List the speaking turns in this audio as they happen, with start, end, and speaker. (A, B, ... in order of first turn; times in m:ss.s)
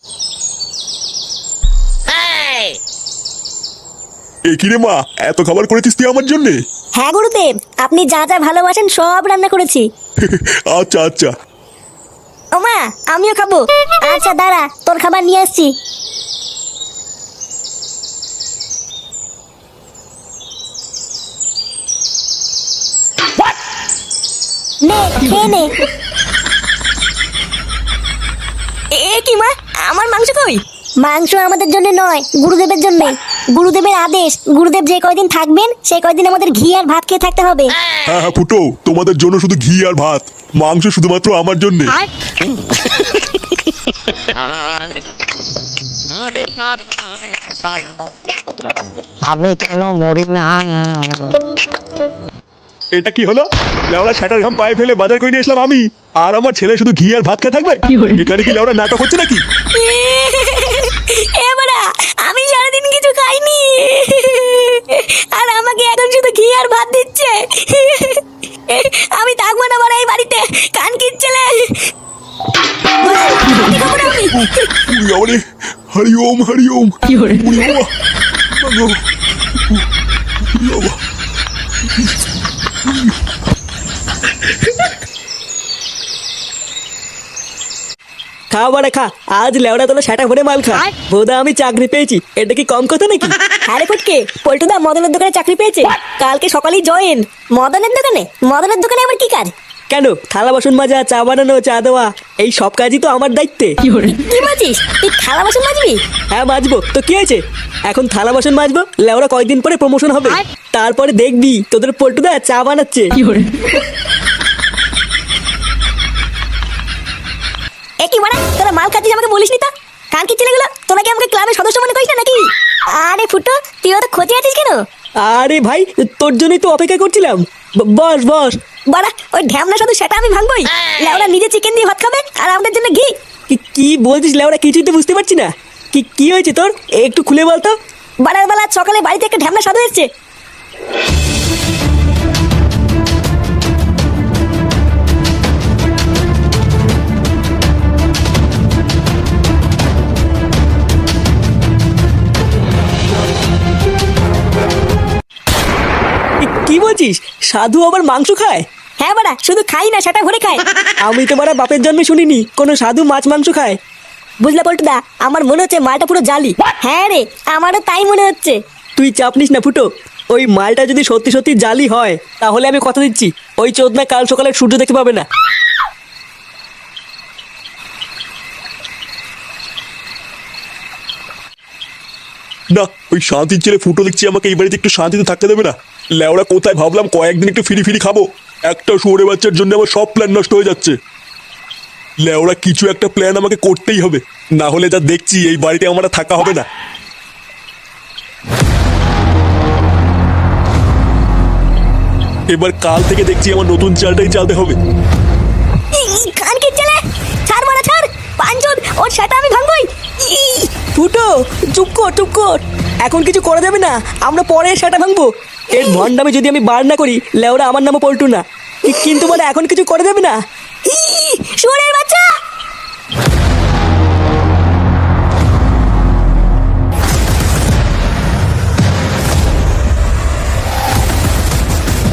0:04.5-0:06.6 A
0:07.0-0:09.8 B
0:10.2-0:11.3 A
0:12.6-0:15.7 B
0:24.8-0:25.7 B
0:28.9-0:37.7 B
0:38.1-0:42.0 A
0:52.9-0:59.4 A
0:59.7-1:11.9 B
1:13.0-1:14.7 B
1:14.8-1:17.9 A
1:18.5-1:19.0 A
1:20.4-1:21.0 A
1:22.8-1:23.1 A
1:28.5-1:33.3 C
1:33.7-1:39.5 B
1:39.9-1:43.8 C
1:44.1-1:46.0 B
1:46.3-1:53.2 C
1:58.0-2:04.8 B
2:05.2-2:08.6 C
2:08.9-2:13.1 B
2:13.5-2:17.8 C
2:18.2-2:20.1 B
2:36.4-2:38.6 C
2:39.0-2:40.6 B
2:41.0-2:43.8 C
2:44.4-2:48.6 B
2:49.0-2:55.2 C
3:02.7-3:11.0 A
3:12.2-3:16.6 A
3:22.5-3:24.8 A
3:25.9-3:30.7 B
3:30.9-3:40.4 C
3:40.8-3:42.3 B